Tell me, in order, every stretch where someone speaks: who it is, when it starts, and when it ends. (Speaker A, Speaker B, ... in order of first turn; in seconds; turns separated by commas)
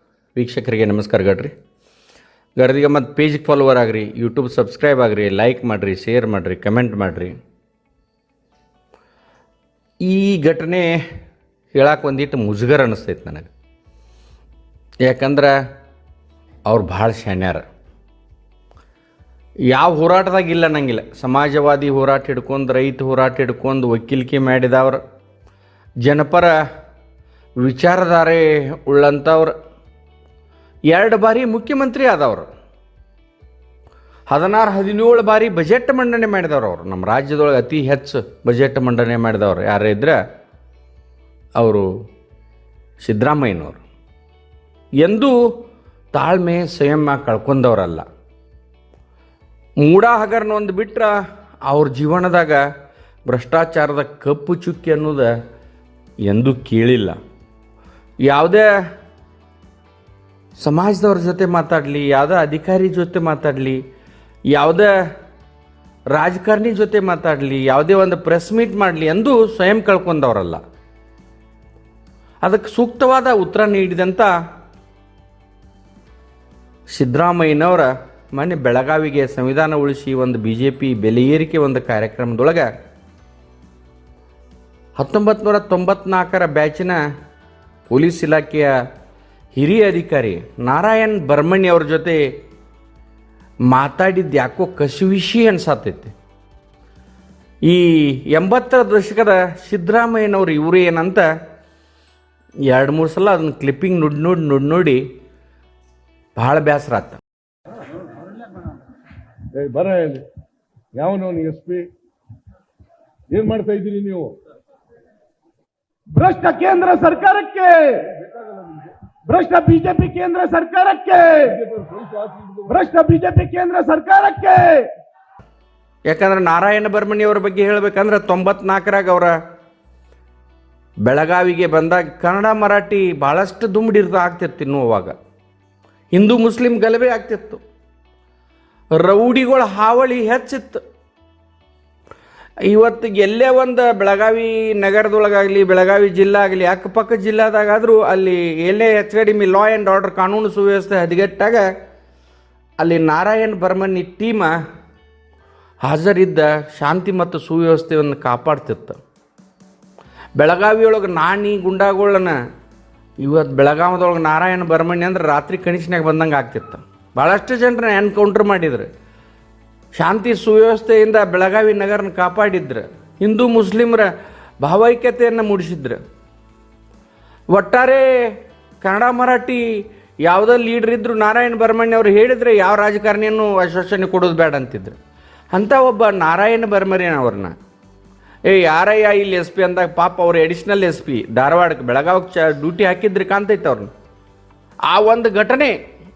Speaker A: 0.3-1.5, Speaker A: 2.6-7.3, Speaker A: 10.0-10.9, Speaker A: 11.7-13.5, Speaker A: 15.0-15.6, Speaker A: 16.7-17.6, Speaker A: 19.7-25.0, Speaker A: 26.0-26.5, Speaker A: 27.6-29.5, Speaker A: 30.9-32.5, Speaker A: 34.3-40.2, Speaker A: 41.6-41.9, Speaker A: 43.0-43.8, Speaker A: 45.0-45.4, Speaker A: 46.1-48.0, Speaker A: 49.8-52.6, Speaker A: 53.3-55.3, Speaker A: 56.2-57.2, Speaker A: 58.2-58.7, Speaker A: 60.6-63.8, Speaker A: 64.5-64.9, Speaker A: 66.1-70.6, Speaker A: 72.4-74.3, Speaker A: 76.9-82.7, Speaker A: 85.0-87.0, Speaker A: 87.9-88.7, Speaker A: 89.5-92.2, Speaker A: 93.7-96.1, Speaker A: 97.7-101.3, Speaker A: 102.7-105.0, Speaker A: 106.4-107.2, Speaker B: 109.5-110.2, Speaker B: 111.0-111.9, Speaker B: 113.3-114.3, Speaker C: 116.1-118.1, Speaker B: 118.4-118.9, Speaker C: 119.3-121.6, Speaker B: 121.6-122.8, Speaker C: 122.7-124.9, Speaker A: 126.1-129.3, Speaker A: 131.0-135.2, Speaker A: 136.1-137.6, Speaker A: 138.9-140.8, Speaker A: 142.7-151.7, Speaker A: 152.8-154.6, Speaker A: 155.8-159.0, Speaker A: 160.4-162.4, Speaker A: 163.2-168.9, Speaker A: 169.9-174.1, Speaker A: 174.6-176.0, Speaker A: 177.5-178.1, Speaker A: 178.8-179.6, Speaker A: 180.3-185.0, Speaker A: 185.5-187.6, Speaker A: 188.5-193.9, Speaker A: 194.9-195.8